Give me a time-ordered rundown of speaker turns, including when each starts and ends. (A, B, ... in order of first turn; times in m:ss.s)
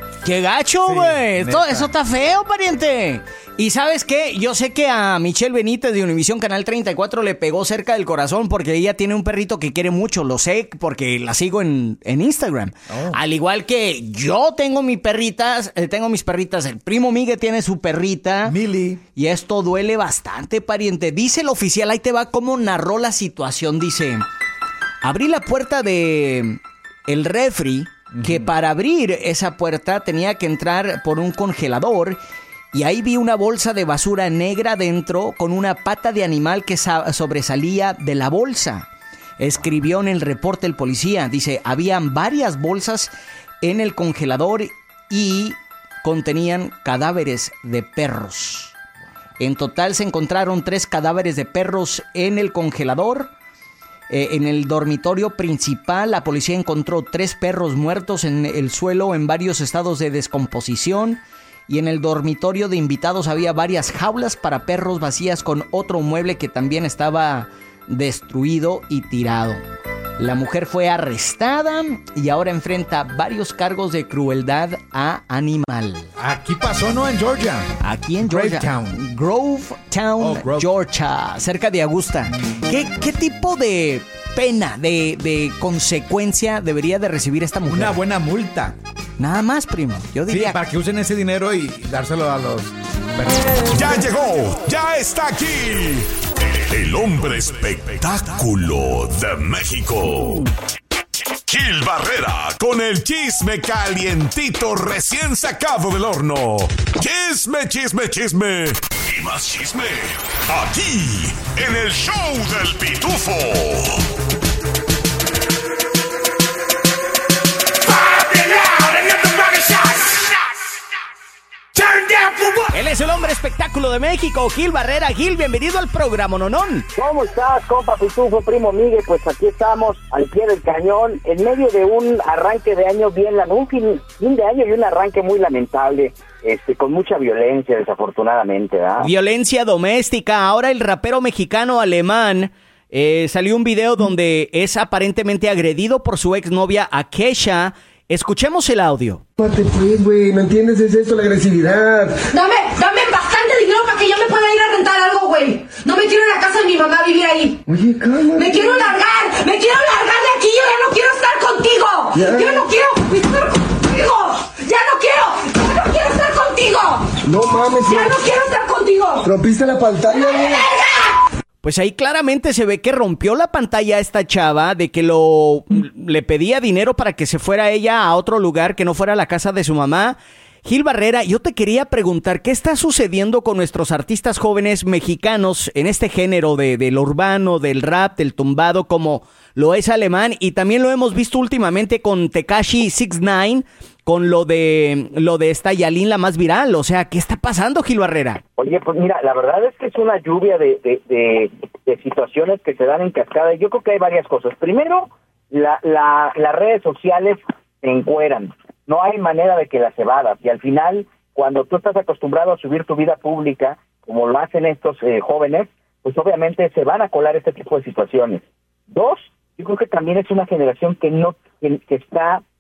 0:00.2-0:18.6 A
0:00.8-0:01.9 B
0:12.9-0:13.2 B
0:18.4-0:19.0 B
0:19.2-0:24.2 A
0:25.0-0:32.2 A
0:28.1-0:28.5 B
0:32.7-0:38.9 A
0:39.4-0:43.1 A
0:43.6-0:48.7 A
0:49.4-0:53.3 A
0:54.1-1:09.6 A
1:10.2-1:16.1 A
1:16.2-1:19.0 B
1:17.8-1:28.0 A
1:20.2-1:20.7 B
1:27.7-1:28.8 B
1:29.2-1:30.6 A
1:30.3-1:33.8 B
1:33.7-1:40.5 C
1:41.5-1:54.0 C
2:02.0-2:02.4 B
2:02.6-2:06.9 A
2:07.0-2:19.1 D
2:19.0-2:29.2 A
2:29.4-2:32.2 E
2:32.3-2:37.6 F
2:37.7-2:38.9 E
2:38.3-2:47.2 F
2:42.1-2:42.6 E
2:47.2-2:48.2 E
2:47.8-2:49.3 F
2:49.2-2:50.6 E
2:50.4-2:51.1 F
2:51.6-3:18.4 A
3:18.6-3:42.4 D